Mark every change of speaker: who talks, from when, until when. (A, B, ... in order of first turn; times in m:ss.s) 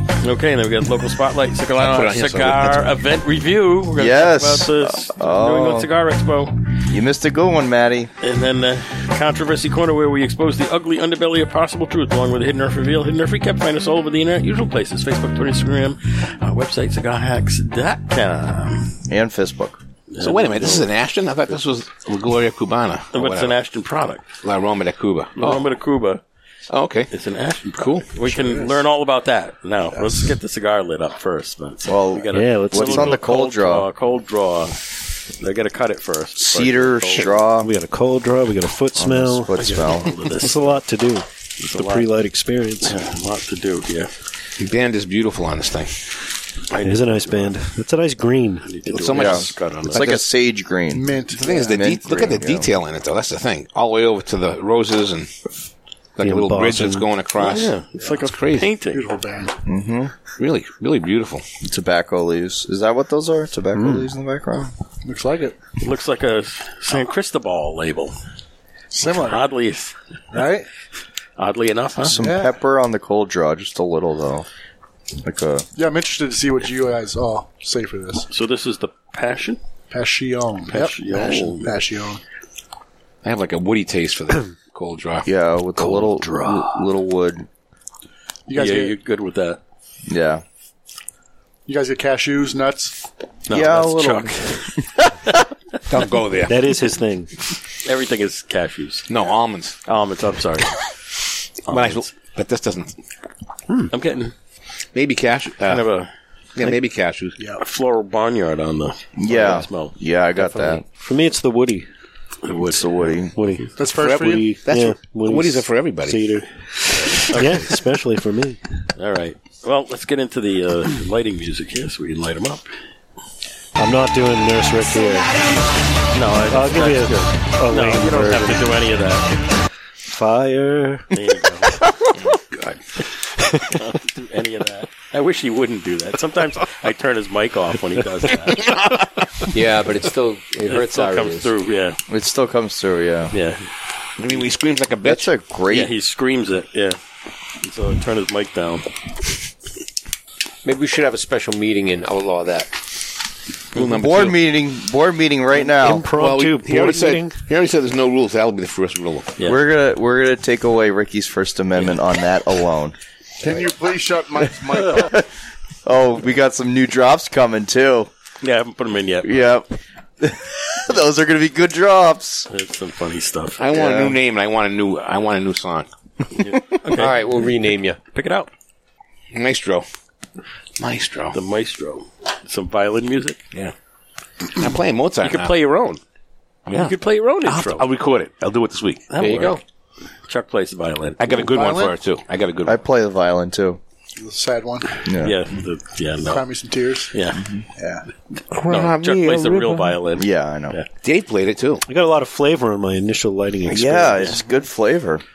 0:00.2-0:06.6 A
0:01.8-0:02.9 B
0:04.0-0:05.9 C
0:06.9-0:08.1 C
0:08.2-0:19.0 A
0:19.1-0:19.8 C
0:20.1-0:20.9 A
0:20.2-0:23.5 B
0:23.1-0:24.2 A
0:24.4-0:25.6 B
0:25.4-0:26.2 A
0:26.7-0:27.1 B
0:27.1-0:34.8 A
0:27.7-0:28.1 B
0:28.2-0:28.8 D
0:29.9-0:30.3 D
0:31.8-0:33.9 C
0:32.3-0:33.2 E
0:35.3-0:37.4 A
0:36.4-0:37.7 C
0:37.6-0:39.5 E
0:39.0-0:40.1 C
0:39.6-0:40.8 A
0:40.3-0:43.0 E
0:41.6-0:42.1 A
0:42.8-0:44.1 A
0:44.6-0:46.2 B
0:46.7-0:47.6 A
0:46.8-0:48.7 E
0:48.6-0:50.0 A
0:48.9-0:50.3 B
0:49.1-0:52.7 C
0:50.9-0:51.8 D
0:51.3-0:55.3 B
0:56.2-0:58.7 B
0:56.2-0:57.1 E
0:57.4-0:59.0 A
0:58.9-0:59.6 D
0:59.6-1:00.1 C
1:00.4-1:01.4 B
1:01.6-1:04.7 C
1:03.8-1:04.1 E
1:05.0-1:05.6 D
1:05.8-1:08.1 A
1:08.9-1:09.4 D
1:09.0-1:10.0 A
1:10.3-1:10.7 D
1:11.4-1:12.2 A
1:12.0-1:14.5 C
1:12.2-1:12.6 D
1:15.2-1:15.7 C
1:15.8-1:18.3 D
1:18.3-1:19.6 A
1:19.9-1:22.2 D
1:20.7-1:21.8 A
1:23.2-1:25.3 B
1:25.2-1:27.5 C
1:25.8-1:26.9 E
1:28.5-1:28.9 D
1:28.6-1:29.6 A
1:30.1-1:30.4 C
1:31.6-1:32.9 D
1:33.5-1:34.7 A
1:33.5-1:34.8 C
1:35.9-1:36.5 B
1:36.5-1:37.3 E
1:37.8-1:39.1 A
1:39.1-1:39.8 B
1:39.9-1:40.8 A
1:41.6-1:42.1 A
1:41.7-1:43.0 B
1:43.9-1:44.3 A
1:44.9-1:45.9 B
1:45.7-1:46.1 A
1:46.6-1:47.4 B
1:47.6-1:49.9 A
1:49.2-1:50.8 C
1:50.4-1:51.9 E
1:52.4-1:53.2 A
1:52.6-1:53.3 C
1:53.3-1:58.6 E
1:53.8-1:54.4 D
1:54.0-1:56.4 B
1:56.9-1:57.4 B
1:57.3-1:57.6 A
1:59.0-2:02.7 A
2:03.8-2:05.4 E
2:06.1-2:09.4 A
2:06.5-2:08.8 E
2:10.0-2:11.2 E
2:11.1-2:11.8 A
2:12.2-2:12.7 B
2:13.4-2:13.8 E
2:13.7-2:18.7 A
2:19.5-2:21.5 F
2:20.6-2:22.0 A
2:22.1-2:23.3 C
2:23.3-2:23.6 A
2:24.2-2:25.3 B
2:25.0-2:25.9 C
2:25.7-2:27.0 A
2:27.6-2:28.9 A
2:30.6-2:32.7 F
2:33.8-2:34.4 B
2:33.8-2:36.1 C
2:35.6-2:37.4 E
2:36.1-2:39.4 B
2:39.4-2:43.0 C
2:43.4-2:45.1 D
2:44.6-2:45.3 C
2:45.8-2:48.1 C
2:48.4-2:49.4 A
2:49.2-2:52.5 C
2:52.5-2:53.6 A
2:53.6-2:55.9 B
2:53.7-2:54.2 C
2:56.4-2:57.2 A
2:56.9-2:58.0 F
2:58.1-2:58.5 A
2:59.3-2:59.9 B
3:00.8-3:01.4 B
3:01.3-3:03.4 A
3:04.5-3:05.6 B
3:05.2-3:06.0 A
3:06.6-3:09.1 B
3:06.7-3:07.8 A
3:09.1-3:09.6 A
3:09.2-3:09.6 F
3:10.2-3:11.3 A
3:11.2-3:12.8 B
3:11.3-3:11.9 D
3:12.6-3:13.8 C
3:14.2-3:15.0 D
3:15.0-3:15.4 C
3:15.2-3:16.4 A
3:16.2-3:17.1 D
3:17.1-3:17.4 A
3:17.4-3:17.6 C
3:17.8-3:18.1 D
3:18.5-3:20.0 B
3:18.7-3:20.9 A
3:20.1-3:20.8 C
3:21.0-3:21.8 B
3:21.9-3:24.4 E
3:23.6-3:25.2 C